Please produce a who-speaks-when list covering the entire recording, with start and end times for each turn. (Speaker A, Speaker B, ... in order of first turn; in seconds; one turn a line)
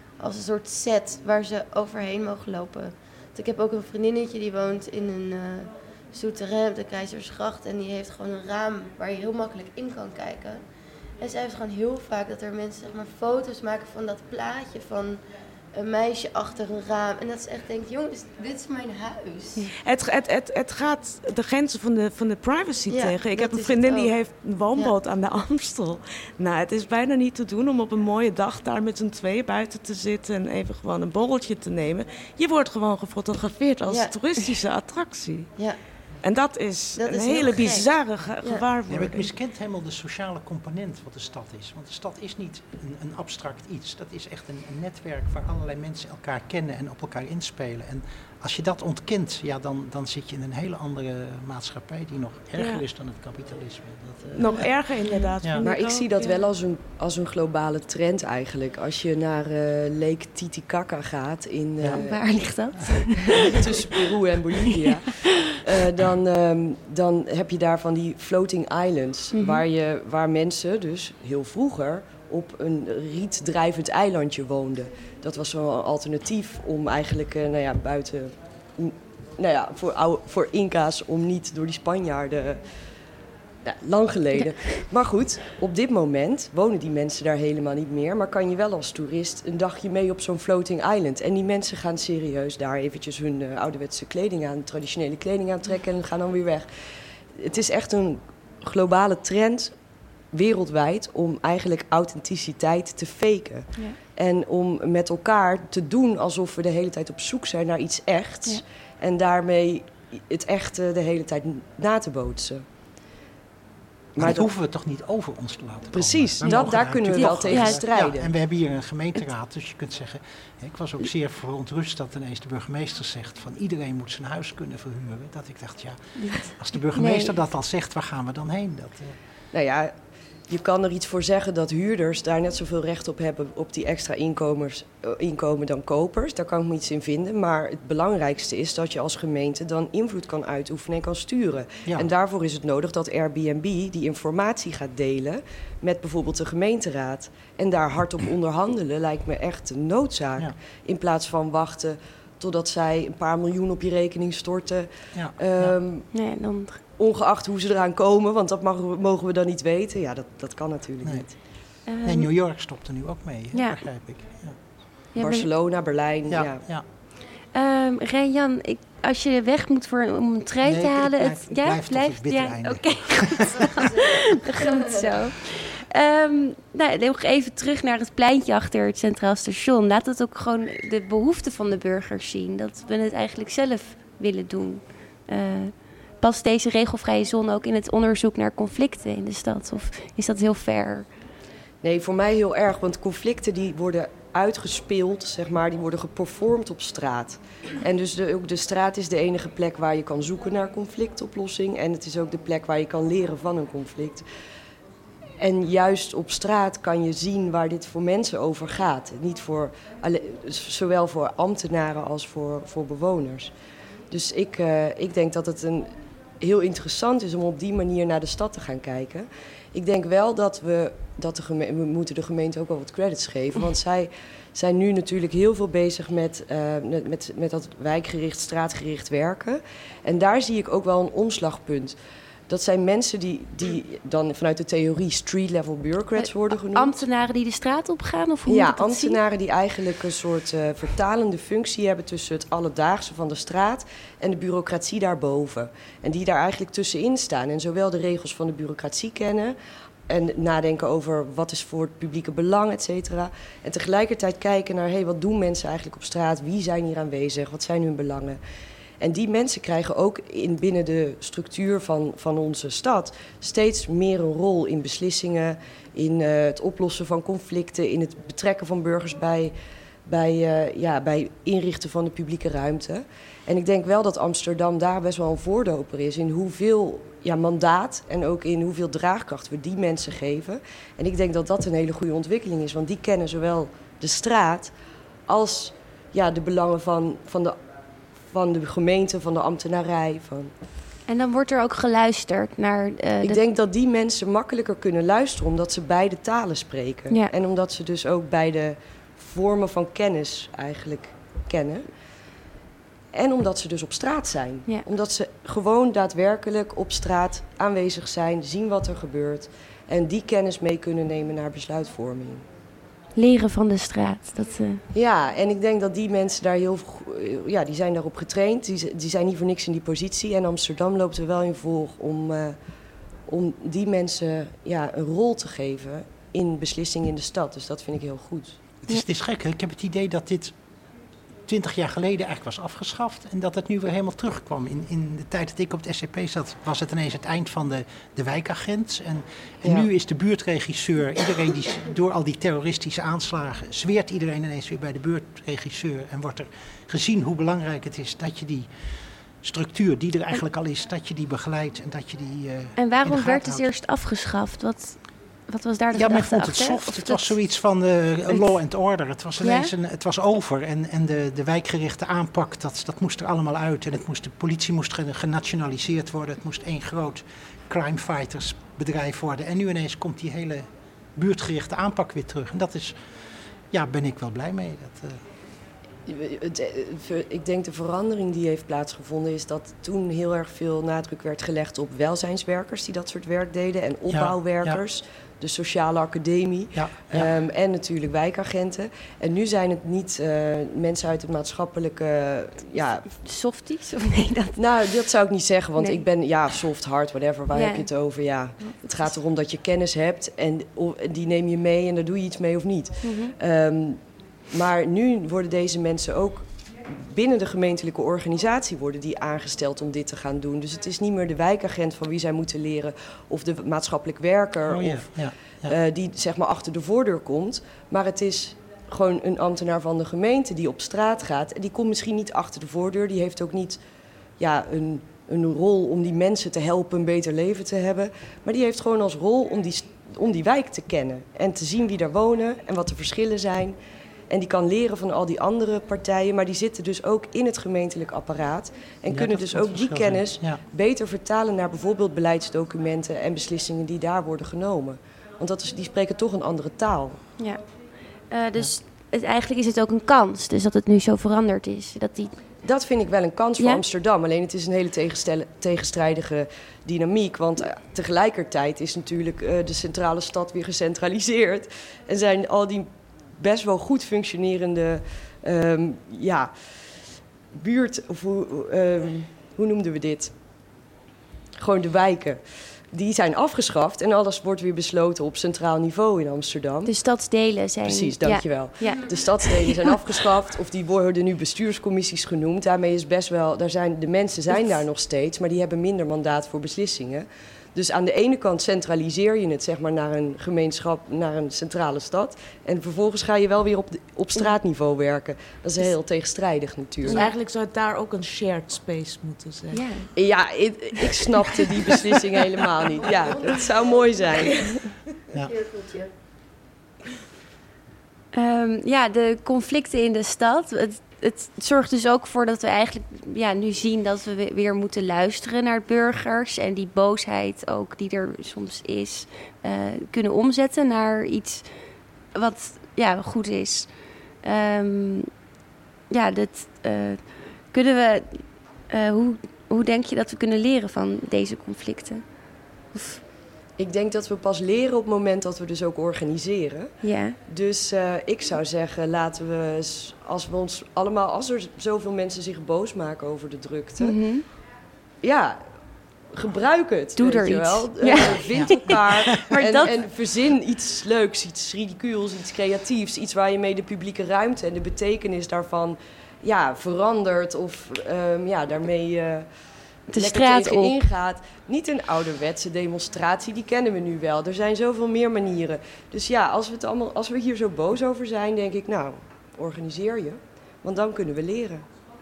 Speaker A: 0.2-10.6
Speaker A: 11.2-15.2
Speaker A: 15.7-19.7
Speaker B: 19.8-35.5
Speaker A: 22.9-24.1
Speaker A: 33.9-34.1
Speaker B: 36.2-39.3
Speaker A: 37.0-37.9
Speaker C: 38.9-54.7
Speaker B: 52.5-52.8
Speaker B: 54.3-56.4
Speaker D: 55.6-62.3
Speaker E: 61.9-63.6
Speaker D: 63.3-82.6
Speaker E: 69.3-69.6
Speaker D: 83.6-96.7
Speaker D: 97.3-99.7
Speaker D: 100.3-112.6
Speaker D: 114.1-114.4
Speaker C: 114.2-129.2
Speaker D: 115.9-118.3
Speaker E: 116.5-117.8
Speaker E: 126.2-127.3
Speaker D: 129.5-129.9
Speaker D: 130.5-156.1
Speaker C: 155.1-155.7
Speaker E: 156.1-156.8
Speaker D: 157.0-161.3
Speaker C: 161.0-161.3
Speaker E: 161.9-162.3
Speaker C: 162.0-164.6
Speaker E: 163.5-163.8
Speaker E: 165.1-165.5
Speaker D: 165.2-166.6
Speaker C: 166.3-166.8
Speaker E: 167.5-191.1
Speaker C: 170.6-173.6
Speaker D: 191.8-204.2
Speaker D: 205.4-213.5
Speaker D: 214.1-231.9
Speaker D: 232.5-237.0
Speaker E: 236.2-239.2
Speaker D: 238.5-249.6
Speaker D: 250.1-258.4
Speaker D: 259.0-269.5
Speaker D: 270.1-284.7
Speaker D: 285.3-287.6
Speaker D: 288.3-290.5
Speaker E: 291.1-293.4
Speaker D: 293.2-301.9
Speaker D: 303.1-312.4
Speaker E: 313.1-314.8
Speaker D: 314.9-322.6
Speaker D: 323.3-328.6
Speaker C: 328.8-330.5
Speaker C: 331.5-348.7
Speaker C: 349.4-353.7
Speaker E: 352.8-357.4
Speaker C: 355.9-372.9
Speaker E: 358.3-358.6
Speaker E: 359.4-359.7
Speaker C: 373.7-375.2
Speaker D: 376.1-393.1
Speaker C: 384.1-384.8
Speaker C: 386.7-387.3
Speaker E: 393.1-394.6
Speaker D: 394.6-415.1
Speaker E: 395.8-396.0
Speaker E: 397.5-397.9
Speaker E: 398.6-399.1
Speaker E: 403.0-403.3
Speaker C: 414.7-415.7
Speaker D: 415.6-423.8
Speaker D: 424.4-433.8
Speaker D: 434.3-447.2
Speaker C: 439.1-440.6
Speaker E: 448.3-452.4
Speaker D: 452.6-466.7
Speaker D: 467.5-470.3
Speaker D: 471.6-472.4
Speaker D: 472.9-476.9
Speaker E: 476.9-479.9
Speaker D: 477.8-497.2
Speaker E: 484.5-484.8
Speaker B: 497.1-499.9
Speaker E: 499.7-500.1
Speaker D: 500.1-504.8
Speaker A: 503.0-504.6
Speaker A: 505.3-506.1
Speaker E: 508.3-521.6
Speaker E: 522.3-523.9
Speaker E: 524.4-525.3
Speaker E: 526.1-532.2
Speaker E: 532.9-533.2
Speaker D: 533.8-536.9
Speaker E: 537.0-537.4
Speaker D: 537.5-544.2
Speaker E: 544.0-544.4
Speaker D: 545.2-545.6
Speaker D: 546.3-559.5
Speaker E: 547.2-549.9
Speaker C: 548.1-548.8
Speaker E: 560.1-561.0
Speaker D: 560.1-571.8